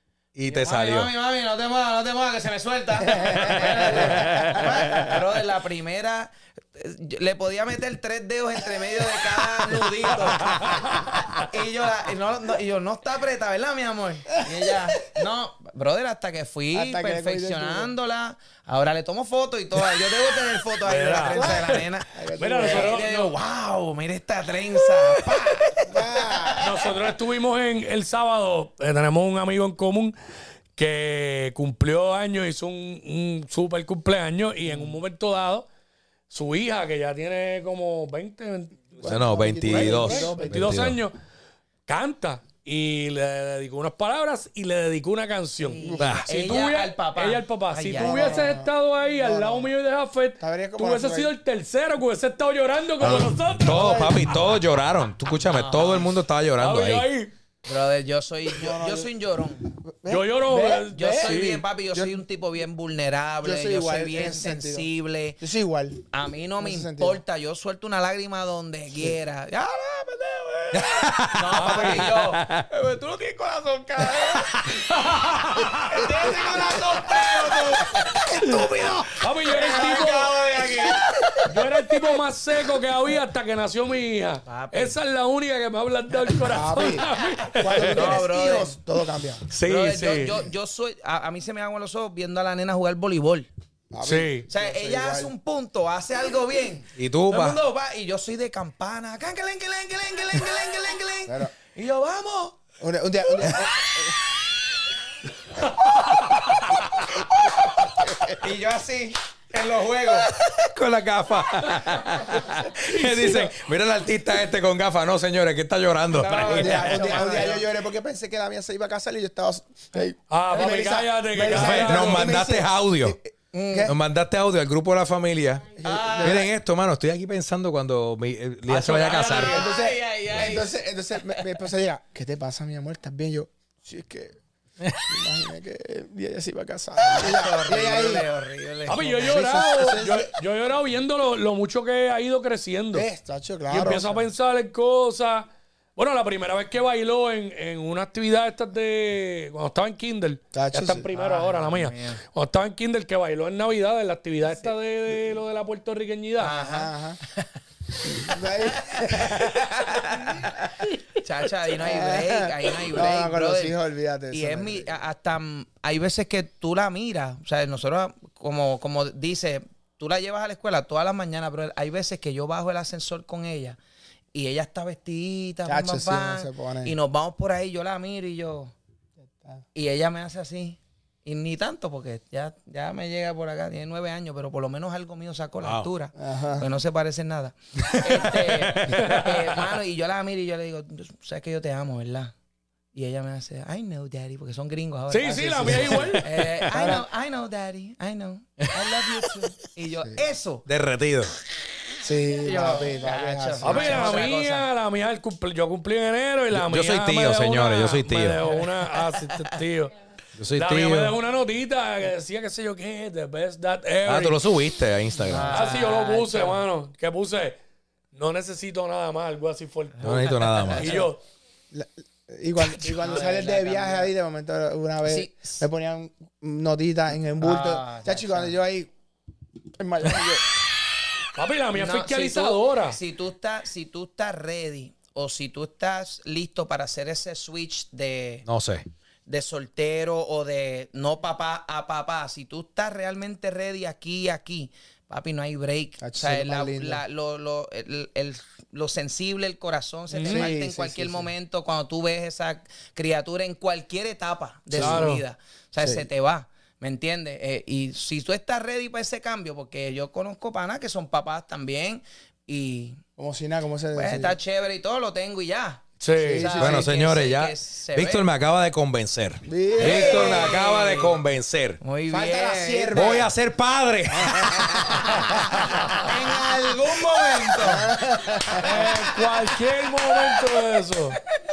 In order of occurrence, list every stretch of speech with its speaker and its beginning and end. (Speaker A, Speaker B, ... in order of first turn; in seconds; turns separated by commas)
Speaker A: 0.3-1.1, Speaker B: 0.5-26.9, Speaker C: 3.0-5.1, Speaker A: 4.1-4.7, Speaker C: 16.7-17.9, Speaker D: 20.9-21.8, Speaker C: 21.3-23.0, Speaker D: 22.4-23.4, Speaker C: 25.9-26.7, Speaker D: 26.6-30.2, Speaker D: 30.8-35.7, Speaker D: 36.3-39.1, Speaker C: 39.0-40.9, Speaker A: 39.0-41.0, Speaker B: 39.8-40.3, Speaker D: 39.8-41.1, Speaker D: 41.9-54.1, Speaker B: 45.6-48.5, Speaker C: 45.8-46.1, Speaker A: 46.0-46.2, Speaker C: 48.0-49.7, Speaker C: 50.4-51.3, Speaker A: 53.6-57.1, Speaker C: 53.6-54.4, Speaker B: 55.4-56.2, Speaker D: 56.6-57.3, Speaker B: 57.7-59.7, Speaker C: 58.5-59.1, Speaker C: 59.7-62.2, Speaker D: 60.1-61.6, Speaker B: 60.9-65.4, Speaker C: 63.4-64.9, Speaker C: 65.4-66.0, Speaker B: 66.1-74.8, Speaker C: 66.6-67.2, Speaker A: 70.7-72.7, Speaker D: 71.5-72.2, Speaker A: 74.3-74.8, Speaker D: 74.9-75.4, Speaker A: 75.3-76.1, Speaker B: 75.8-81.6, Speaker C: 76.0-80.1, Speaker D: 79.2-80.4, Speaker D: 81.4-88.2, Speaker B: 84.5-85.0, Speaker C: 86.5-89.5, Speaker B: 87.8-88.7, Speaker D: 89.5-90.4, Speaker B: 89.6-93.5, Speaker C: 93.9-95.3, Speaker D: 94.0-94.5, Speaker B: 94.5-102.6, Speaker A: 97.0-97.6, Speaker C: 101.3-101.5, Speaker C: 102.8-104.3, Speaker B: 103.4-103.7, Speaker B: 108.3-110.3, Speaker A: 110.3-117.3, Speaker D: 112.8-113.5, Speaker B: 116.1-117.6, Speaker C: 116.5-124.0, Speaker D: 120.3-122.3, Speaker A: 121.5-123.2, Speaker B: 123.5-123.9, Speaker A: 123.9-129.7, Speaker C: 125.8-126.5, Speaker B: 125.8-126.5, Speaker B: 128.7-131.6, Speaker C: 129.3-134.4, Speaker C: 135.0-138.3, Speaker B: 137.0-139.1, Speaker D: 138.9-143.1, Speaker C: 138.9-140.3, Speaker C: 142.9-144.2, Speaker D: 143.7-156.6, Speaker C: 150.5-151.1, Speaker B: 151.2-152.2, Speaker B: 156.4-163.7, Speaker C: 156.6-157.2, Speaker C: 158.0-159.6, Speaker C: 161.8-164.9, Speaker B: 164.3-173.8, Speaker B: 174.3-178.7, Speaker C: 175.7-176.9, Speaker B: 179.8-192.3, Speaker A: 185.6-185.9, Speaker C: 186.2-186.7, Speaker A: 187.8-189.6, Speaker D: 188.9-189.3, Speaker B: 192.9-200.6, Speaker D: 195.1-196.3, Speaker C: 195.3-196.2, Speaker A: 195.9-196.6, Speaker C: 196.7-197.1, Speaker A: 198.8-199.3, Speaker A: 200.7-201.4, Speaker C: 202.0-204.3, Speaker B: 202.3-204.7, Speaker D: 203.6-209.9, Speaker A: 206.5-208.4, Speaker A: 210.4-211.2, Speaker D: 210.5-214.4, Speaker A: 214.1-215.7, Speaker B: 215.2-216.6, Speaker D: 215.5-217.6, Speaker D: 218.1-221.2, Speaker A: 220.0-221.1, Speaker B: 220.0-221.1, Speaker C: 221.7-228.9, Speaker B: 222.9-224.1, Speaker B: 225.1-225.7, Speaker B: 227.4-228.6, Speaker C: 229.7-230.6, Speaker D: 231.3-233.0, Speaker B: 231.7-238.5, Speaker A: 238.5-238.9, Speaker B: 239.3-263.0, Speaker C: 246.0-247.0, Speaker D: 250.1-250.5, Speaker C: 250.2-251.3, Speaker C: 254.7-255.1, Speaker D: 254.7-255.2, Speaker C: 255.8-256.1, Speaker C: 263.2-264.4, Speaker B: 263.9-268.3, Speaker D: 266.0-266.5, Speaker C: 266.2-266.9, Speaker A: 266.5-271.8, Speaker C: 269.4-270.5, Speaker B: 269.8-271.2, Speaker B: 271.8-273.3, Speaker C: 272.1-273.3, Speaker A: 272.9-275.4, Speaker C: 274.2-275.4, Speaker B: 275.1-275.4, Speaker D: 275.6-276.1, Speaker B: 275.9-278.9, Speaker C: 277.6-278.8, Speaker D: 278.6-281.2